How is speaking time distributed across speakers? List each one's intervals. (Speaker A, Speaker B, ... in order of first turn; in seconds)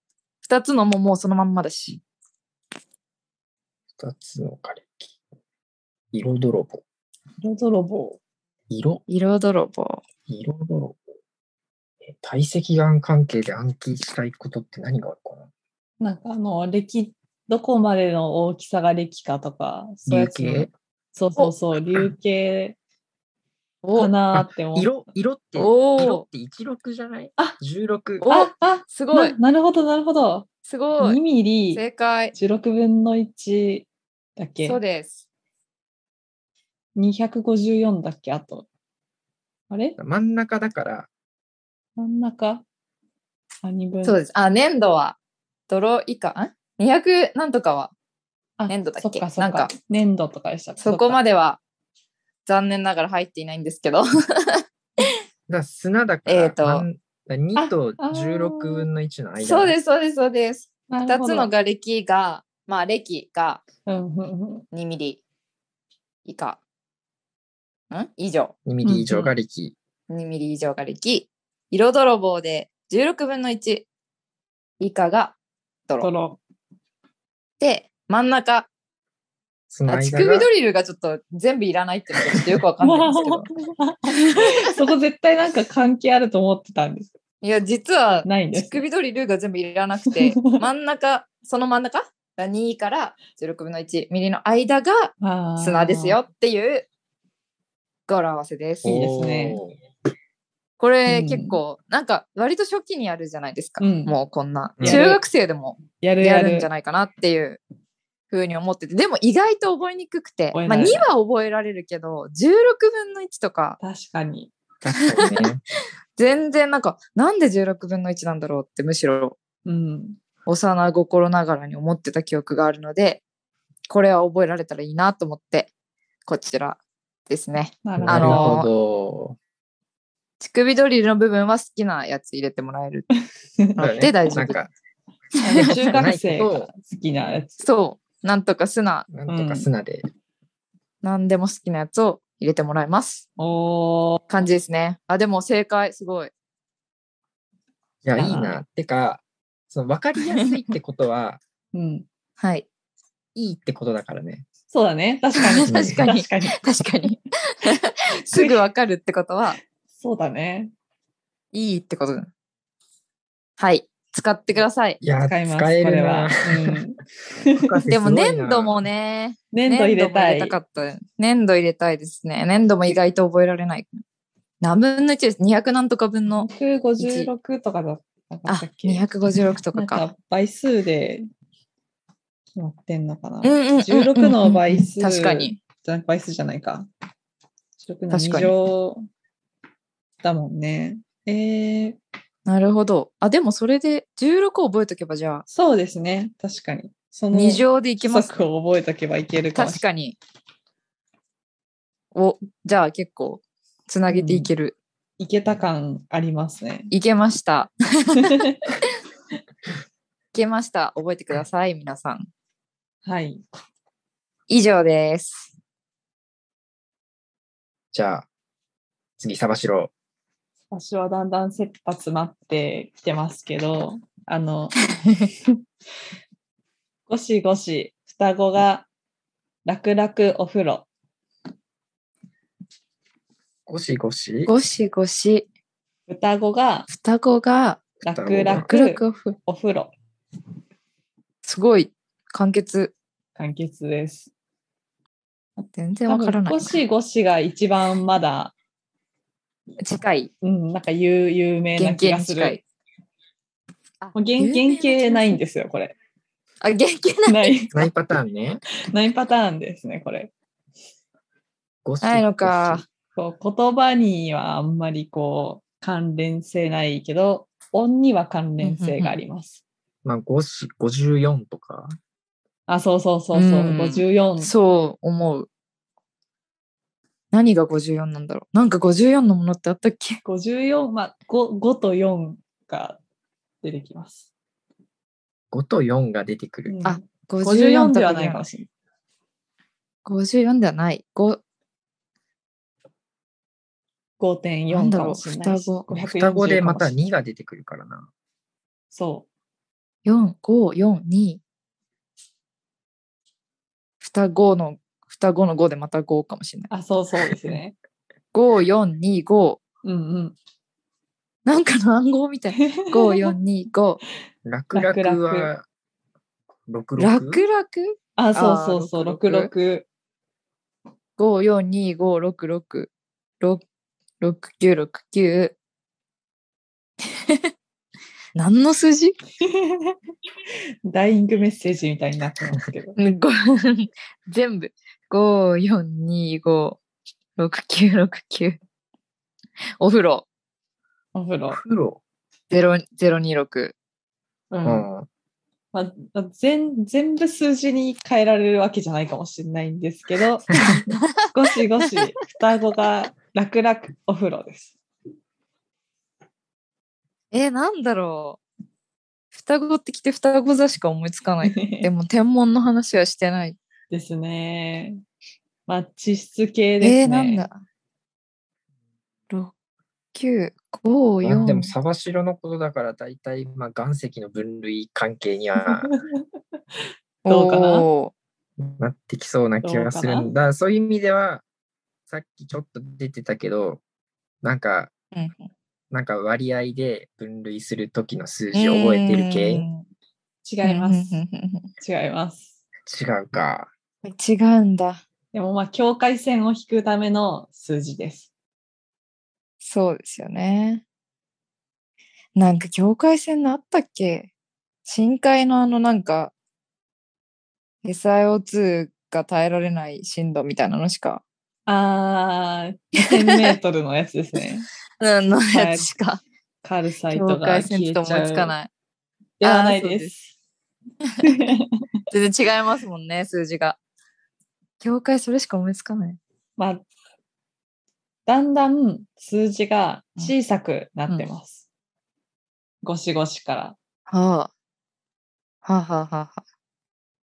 Speaker A: 0.4-2.0, 9.1-10.0, 23.8-24.1, 25.6-26.2, 28.2-29.4, 30.6-31.2, 31.7-32.3, 34.6-35.2, 44.0-45.2, 45.7-47.9, 48.7-49.7, 50.8-51.6, 52.5-55.1, 56.3-56.9, 59.4-63.6, 64.7-65.2, 66.2-66.6, 67.9-68.5, 70.1-73.8, 74.8-75.3, 77.6-78.7, 79.9-83.5, 84.3-84.7, 87.4-96.8, 98.1-99.0, 100.8-107.6, 108.3-113.8, 115.0-115.4, 116.2-119.3, 120.5-123.2, 123.9-125.7, 126.2-128.7, 130.4-133.1, 133.8-134.6, 135.4-136.0, 137.6-139.1, 141.0-143.2, 144.3-146.3, 152.4-152.7, 155.4-159.6, 161.5-162.3, 163.6-165.0, 167.9-174.0, 174.6-177.3, 178.5-180.1, 183.4-185.6, 188.1-188.5, 192.4-195.4, 197.3-198.3, 199.5-200.2, 202.1-204.7, 206.9-208.4, 210.3-212.3, 214.5-215.5, 234.4-235.4, 236.9-237.8, 238.7-239.4, 241.4-242.9, 245.7-246.8, 249.8-250.3, 251.8-252.6, 254.0-255.4, 256.6-257.5, 262.0-262.9, 268.6-269.2, 273.3-275.5, 277.3-280.2, 286.8-288.6, 290.0-291.4, 294.7-295.9, 300.1-301.4, 304.0-306.7, 308.3-309.6, 311.4-314.0, 317.0-319.5, 321.2-322.9, 324.2-325.6, 327.1-327.5, 328.3-329.1, 333.0-336.8, 337.4-338.6, 339.8-340.2, 342.5-343.8, 350.9-351.2, 357.3-358.4, 359.3-363.6, 366.8-367.6, 370.1-371.7, 377.2-378.1, 385.1-385.5, 388.5-389.8, 390.6-391.7, 394.0-395.0, 399.6-400.8, 402.4-404.3, 404.9-406.3, 407.8-411.2, 415.0-416.2, 417.1-418.7, 419.4-420.1, 422.1-423.8, 424.8-426.2, 434.1-434.5, 435.6-436.4
Speaker B: 4.0-5.1, 6.1-6.8, 8.7-9.0, 10.3-11.0, 12.0-15.5, 20.1-20.7, 24.3-28.3, 40.0-41.1, 55.5-59.8, 68.7-69.7, 79.7-80.5, 98.8-99.7, 104.8-105.0, 114.8-115.6, 128.0-129.4, 133.8-134.7, 135.5-136.7, 139.1-140.1, 148.0-151.4, 153.3-154.5, 155.7-156.0, 165.0-166.8, 167.5-168.8, 217.9-218.3, 219.2-219.9, 233.7-234.5, 238.1-238.7, 257.7-258.6, 261.8-262.8, 270.0-272.0, 285.5-286.7, 295.9-298.1, 314.4-315.6, 316.7-317.4, 341.5-342.0, 344.6-345.1, 350.5-350.8, 371.2-375.9, 378.6-381.4, 382.1-383.8, 384.4-384.9, 385.9-389.6, 392.9-393.7
Speaker C: 7.4-8.2, 16.0-22.8, 23.9-24.9, 28.3-30.5, 31.0-31.8, 32.3-34.8, 37.0-38.7, 39.7-40.0, 42.0-42.6, 43.6-44.2, 48.6-51.2, 57.5-58.9, 60.9-61.5, 63.9-64.7, 68.8-69.3, 76.0-76.4, 82.8-87.1, 88.2-88.8, 90.0-90.6, 95.2-96.2, 98.8-99.6, 101.0-101.6, 103.8-104.2, 104.8-105.2, 106.0-106.7, 110.5-111.1, 113.8-114.5, 119.7-120.2, 127.8-128.5, 135.4-137.6, 139.3-139.7, 143.4-144.3, 148.2-148.6, 151.7-152.1, 154.7-156.6, 158.3-158.6, 159.9-160.7, 165.2-167.7, 169.5-170.6, 176.4-179.1, 179.7-181.3, 182.6-186.9, 187.8-189.1, 190.2-192.0, 195.5-199.8, 204.1-204.5, 205.2-206.9, 208.2-208.6, 213.0-213.4, 220.7-224.7, 227.1-228.9, 229.7-230.9, 236.1-236.9, 238.0-239.9, 243.3-244.3, 246.1-248.5, 250.4-252.6, 254.1-255.9, 257.2-257.7, 258.8-260.3, 263.1-269.6, 272.7-274.5, 280.2-283.0, 283.6-284.3, 286.7-288.5, 294.2-296.9, 298.9-299.2, 306.7-307.8, 309.8-310.4, 312.6-313.3, 314.7-315.5, 318.2-319.9, 329.4-329.9, 330.8-333.0, 341.1-341.6, 344.5-344.9, 345.7-350.5, 351.3-354.8, 361.4-361.9, 363.9-365.0, 365.7-367.4, 375.6-376.2, 377.3-377.9, 379.6-380.3, 390.4-391.2, 391.8-392.6, 395.3-398.3, 411.7-414.6, 415.5-415.9, 416.6-418.5, 419.4-420.3, 421.2-421.7, 426.6-426.8, 428.3-431.6, 432.8-433.8